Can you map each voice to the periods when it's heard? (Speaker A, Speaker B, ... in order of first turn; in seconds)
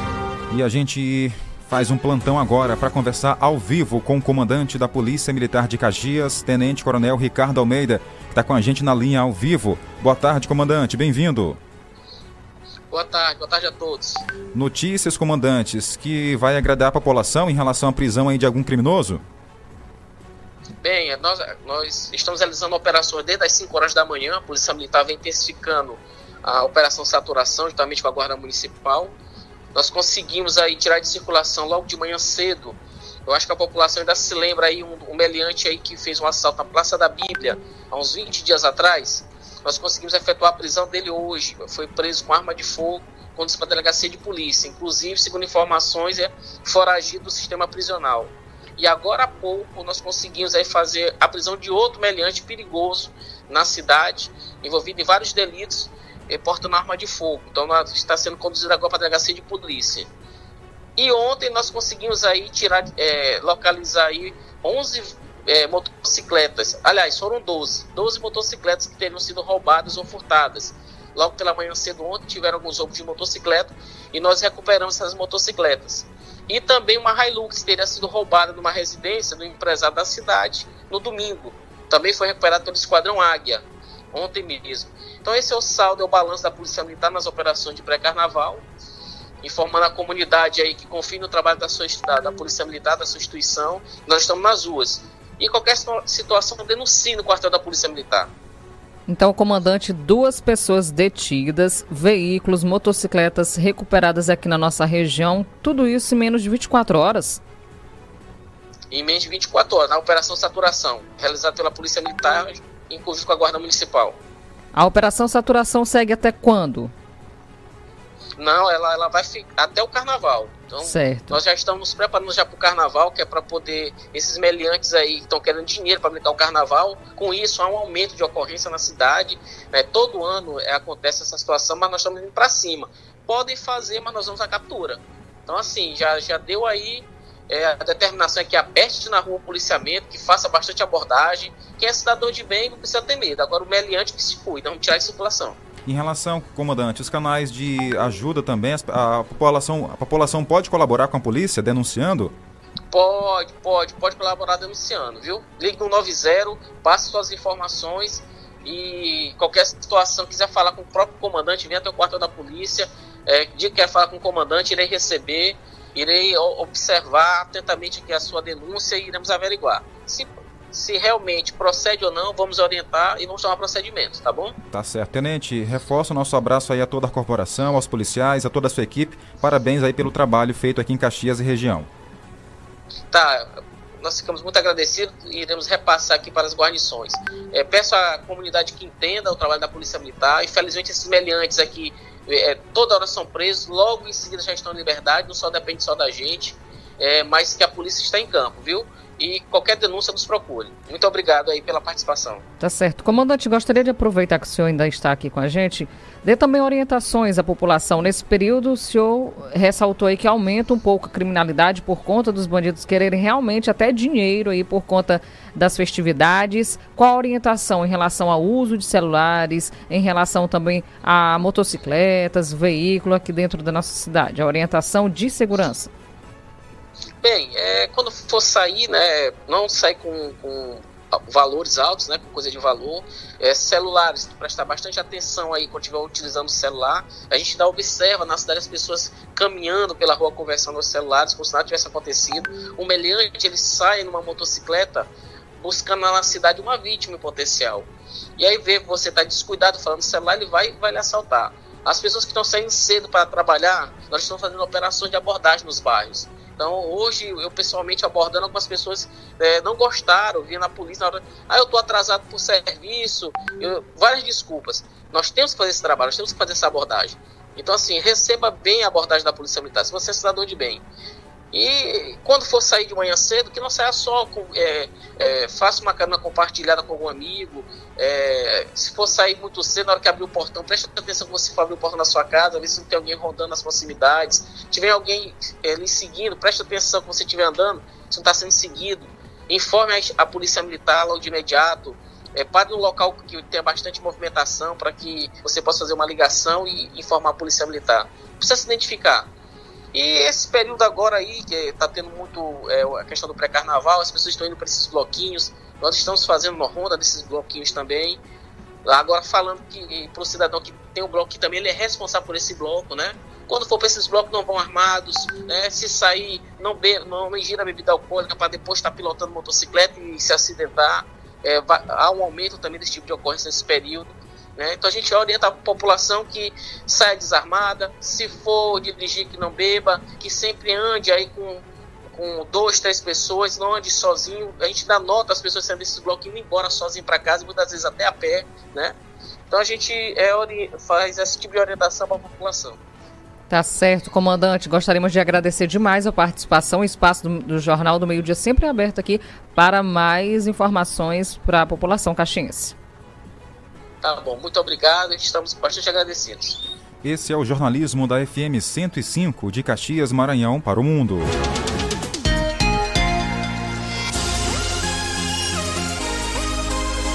Speaker A: 0.5-11.6, 14.5-19.2, 145.9-152.3, 174.7-181.9, 357.0-361.3
Speaker B: 12.9-14.2, 20.8-29.1, 29.7-60.1, 61.0-88.7, 89.4-98.3, 108.9-114.2, 118.4-145.6, 152.9-174.6, 183.1-202.4, 227.2-270.8, 271.5-299.3, 299.9-308.2, 308.9-339.0, 339.5-342.8, 354.0-356.6
Speaker C: 99.1-107.4, 114.7-116.9, 120.8-121.4, 202.6-225.9, 343.5-352.8